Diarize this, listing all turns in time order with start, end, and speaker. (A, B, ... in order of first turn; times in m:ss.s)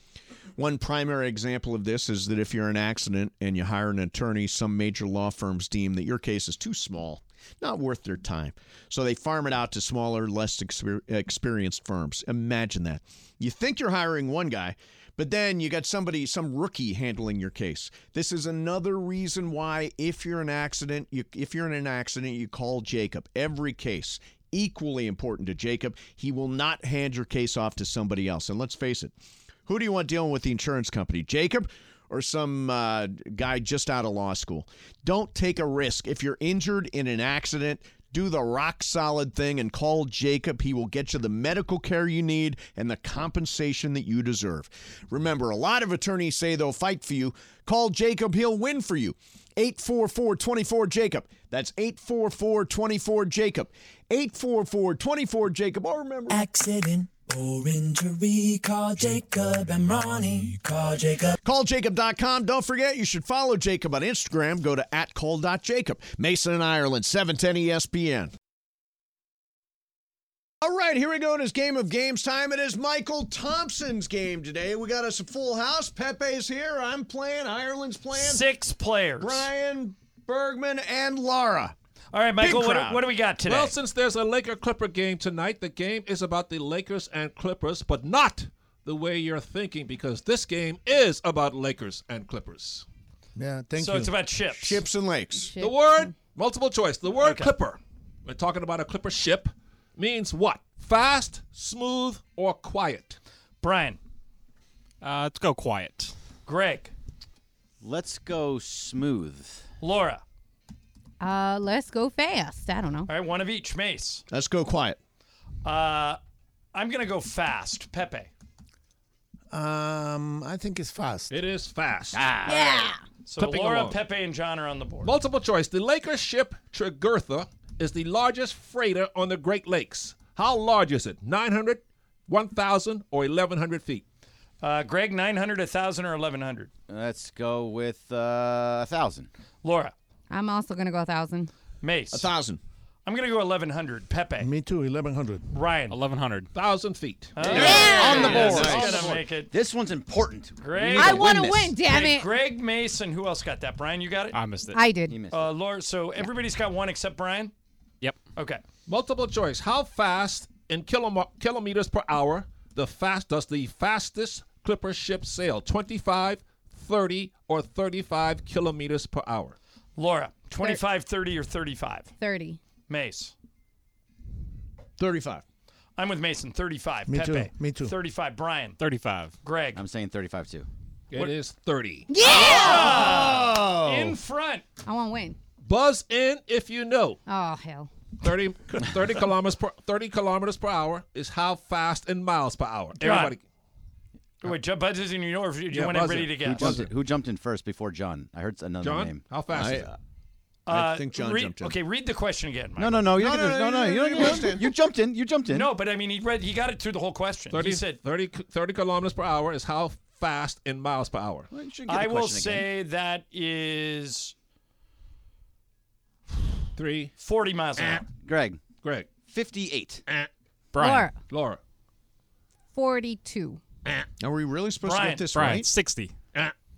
0:00.6-0:29.1 A
0:29.6-0:56.4 A
0:56.3-1:01.4 B
1:01.4-1:08.3 A
1:10.6-1:18.4 A
1:18.2-1:19.5 C
1:19.2-1:21.7 A
1:22.1-1:23.7 C
1:22.4-1:23.0 A
1:23.4-1:32.8 D
1:33.4-1:34.1 E
1:33.8-1:34.8 C
1:34.5-1:35.5 A
1:35.4-1:36.1 F
1:35.6-1:43.2 D
1:37.2-1:37.5 C
1:43.6-1:44.0 C
1:45.0-1:46.1 G
1:46.4-1:46.9 C
1:47.8-1:49.6 H
1:49.8-1:50.2 C
1:51.2-1:53.1 F
1:53.1-1:54.2 C
1:54.3-1:55.0 A
1:55.6-1:56.2 C
1:56.7-1:58.3 C
1:59.5-2:01.4 E
2:01.3-2:02.3 D
2:02.1-2:02.8 H
2:02.4-2:03.0 F
2:03.2-2:05.1 C
2:03.4-2:04.0 D
2:05.0-2:14.0 D
2:14.6-2:16.7 C
2:16.9-2:19.3 H
2:19.6-2:19.9 C
2:20.3-2:21.5 F
2:21.8-2:22.3 C
2:22.1-2:22.6 A
2:23.0-2:24.5 C
2:24.4-2:25.4 E
2:25.5-2:26.0 C
2:25.9-2:26.5 G
2:26.5-2:27.4 D
2:27.4-2:29.5 C
2:27.4-2:29.2 A
2:27.4-2:31.7 H
2:27.4-2:28.6 F
2:30.6-2:31.3 C
2:30.9-2:32.3 F
2:31.0-2:31.4 A
2:31.8-2:34.4 C
2:34.3-2:34.8 G
2:34.7-2:35.2 F
2:35.1-2:35.5 H
2:35.3-2:37.5 C
2:38.4-2:38.6 C
2:38.8-2:49.6 D
2:50.0-2:52.1 C
2:52.2-2:52.6 F
2:52.9-2:53.3 C
2:55.0-2:55.4 A
2:56.0-2:58.8 C
2:57.1-2:57.9 E
2:58.8-2:59.3 G
2:59.4-2:59.8 C
2:59.7-3:00.7 H
3:01.1-3:02.1 D
3:02.1-3:03.1 F
3:02.2-3:04.6 C
3:02.2-3:04.2 A
3:04.8-3:05.4 F
3:05.6-3:07.2 D
3:07.3-3:07.9 F
3:08.2-3:13.4 D
3:13.0-3:13.3 C
3:14.4-3:16.8 C
3:15.7-3:16.9 D
3:16.4-3:19.2 H
3:18.8-3:19.9 D
3:19.5-3:19.9 A
3:20.6-3:23.1 C
3:20.7-3:21.7 A
3:22.8-3:25.7 H
3:23.1-3:24.7 A
3:25.5-3:28.0 C
3:27.5-3:31.5 D
3:31.5-3:32.6 H
3:31.9-3:34.3 C
3:36.7-3:37.1 D
3:37.2-3:38.1 C
3:37.8-3:38.0 D
3:38.2-3:38.6 H
3:38.8-3:39.1 D
3:39.3-3:40.0 H
3:40.7-3:41.1 G
3:40.8-3:41.2 F
3:41.3-3:41.6 D
3:42.7-3:43.6 F
3:44.2-3:45.7 A
3:44.8-3:45.2 C
3:45.3-3:46.1 G